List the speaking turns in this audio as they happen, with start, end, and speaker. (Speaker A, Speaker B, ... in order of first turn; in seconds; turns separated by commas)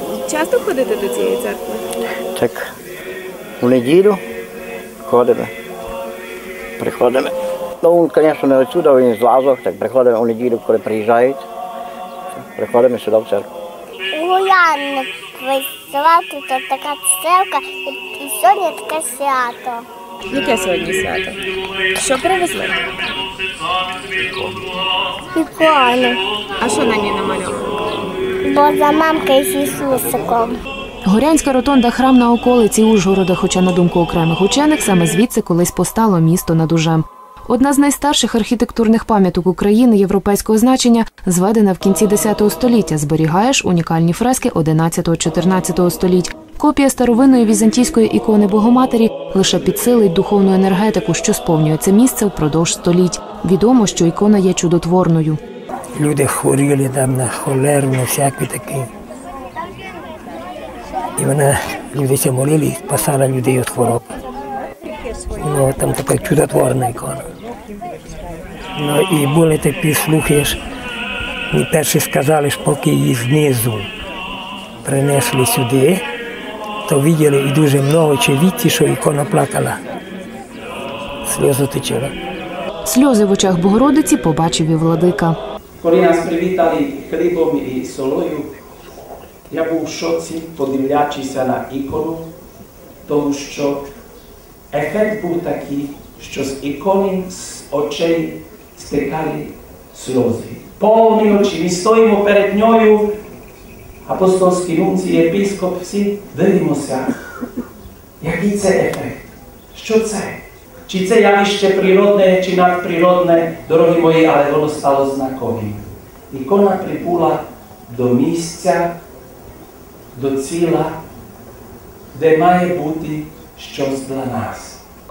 Speaker A: 0.2-1.8, Speaker B: 2.3-2.7, Speaker B: 3.6-4.2, Speaker B: 5.0-5.5, Speaker B: 6.8-11.4, Speaker B: 12.3-13.5, Speaker C: 14.1-19.9, Speaker A: 20.3-21.4, Speaker A: 22.0-22.8, Speaker C: 25.3-26.2, Speaker A: 26.6-27.7, Speaker C: 28.4-30.6, Speaker D: 31.0-55.4, Speaker E: 55.9-58.9, Speaker E: 61.2-64.1, Speaker E: 65.4-67.2, Speaker E: 68.8-70.6, Speaker E: 71.5-73.9, Speaker E: 74.8-76.0, Speaker E: 76.8-79.8, Speaker E: 81.2-82.1, Speaker D: 82.8-85.4, Speaker F: 85.8-88.5, Speaker F: 89.5-92.3, Speaker F: 93.1-93.8, Speaker F: 94.7-103.1, Speaker F: 104.0-107.1, Speaker F: 108.2-118.9, Speaker F: 120.1-120.9, Speaker F: 122.1-124.8